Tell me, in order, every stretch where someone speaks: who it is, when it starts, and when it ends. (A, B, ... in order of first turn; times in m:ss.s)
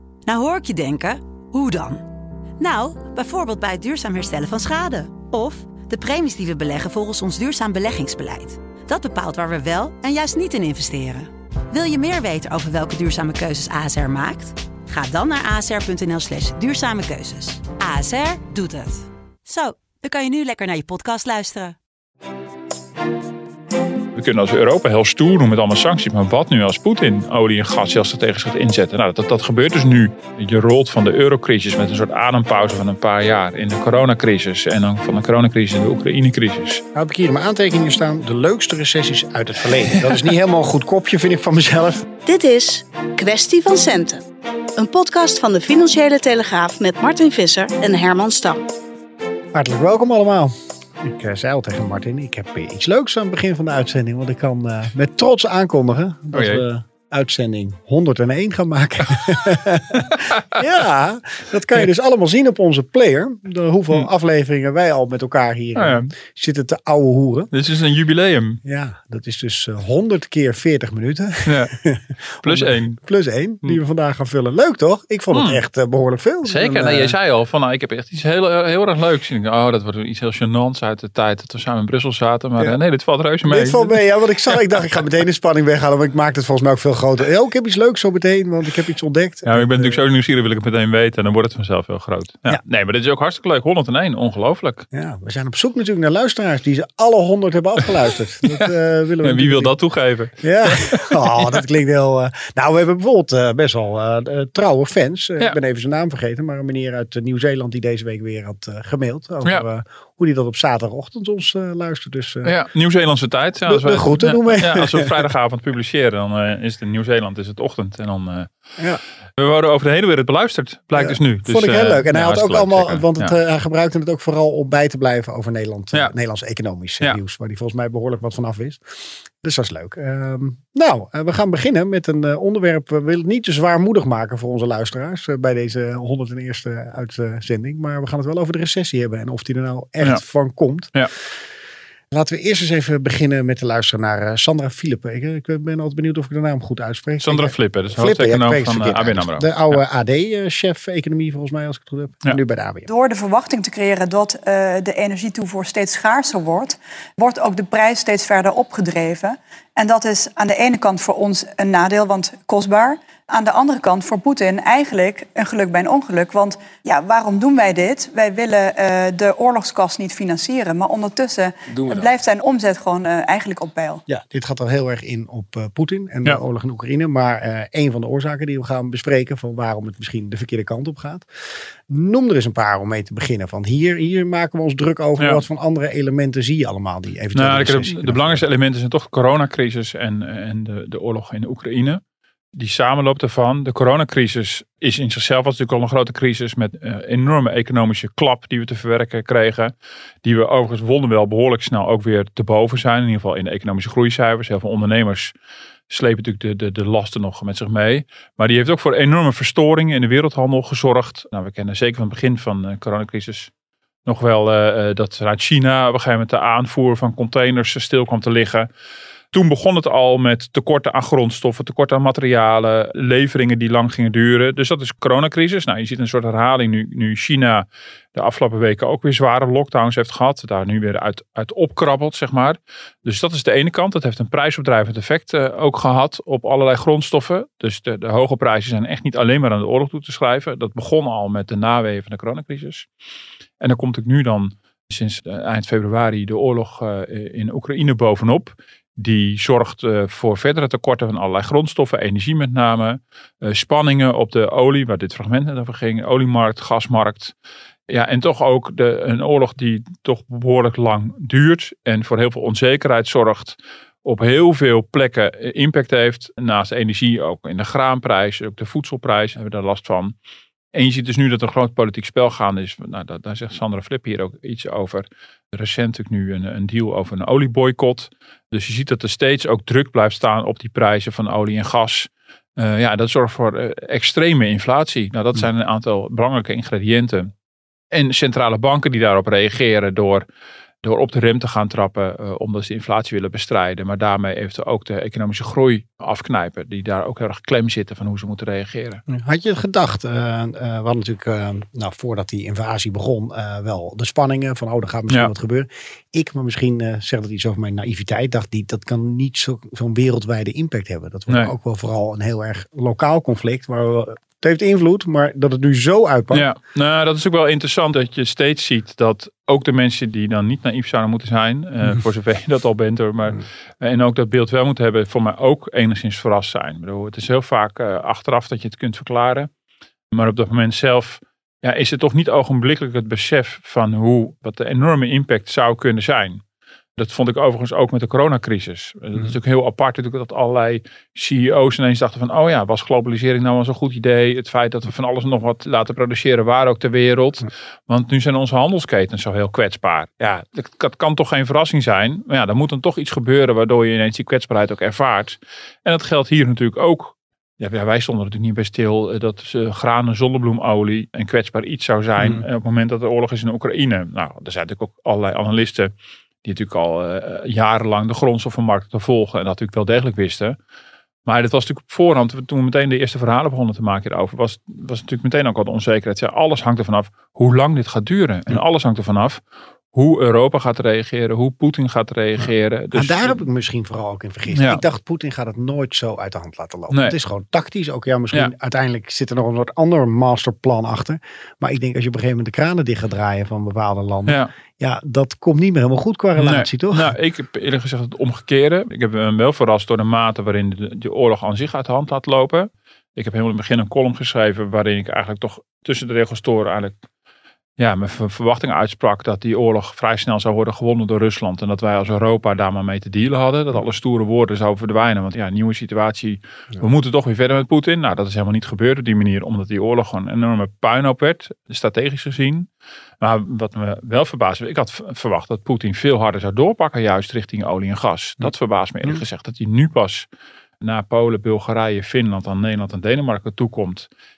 0:00.2-0:02.0 A
0:02.6-0:21.8 A
0:24.1-0:36.8 B
0:36.9-0:42.1 C
0:42.2-0:44.2 D
0:44.8-0:48.6 D
0:49.5-1:07.5 C
0:56.3-0:56.6 B
1:00.1-1:00.6 B
1:05.8-1:06.1 B
1:07.5-1:08.6 B
1:08.6-1:17.1 C
1:11.4-1:11.7 B
1:12.4-1:13.0 B
1:15.3-1:15.6 B
1:16.4-1:24.0 B
1:23.5-1:30.0 C
1:29.4-1:34.8 B
1:34.9-1:39.7 C
1:38.4-1:41.6 B
1:40.4-1:52.5 C
1:52.4-1:58.5 B
1:53.7-1:55.2 C
1:59.4-2:03.4 B
2:01.0-2:08.8 C
2:09.4-2:21.0 C
2:22.1-2:32.9 C
2:27.2-2:29.8 B
2:32.9-2:54.0 E
2:54.1-3:01.3 C
3:01.9-3:08.4 C
3:07.3-3:12.0 B
3:12.5-3:25.3 B
3:25.9-3:33.5 B
3:34.1-3:38.7 B
3:39.3-4:02.9 B
4:03.6-4:17.3 B
4:17.9-4:30.1 B
4:30.7-4:47.3 B
4:47.9-4:50.2 B
4:50.8-4:59.0 B
4:59.1-5:16.4 C
5:16.3-5:29.5 B
5:30.1-5:36.4 B
5:37.0-6:05.9 B
6:02.2-6:02.4 C
6:06.4-6:10.6 B
6:11.2-6:19.4 B
6:19.9-6:23.4 B
6:22.4-6:37.1 C
6:24.5-6:24.8 B
6:26.9-6:27.2 B
6:34.2-6:34.5 B
6:36.4-6:46.9 B
6:47.8-7:02.7 B
7:03.2-7:10.3 B
7:10.8-7:14.1 B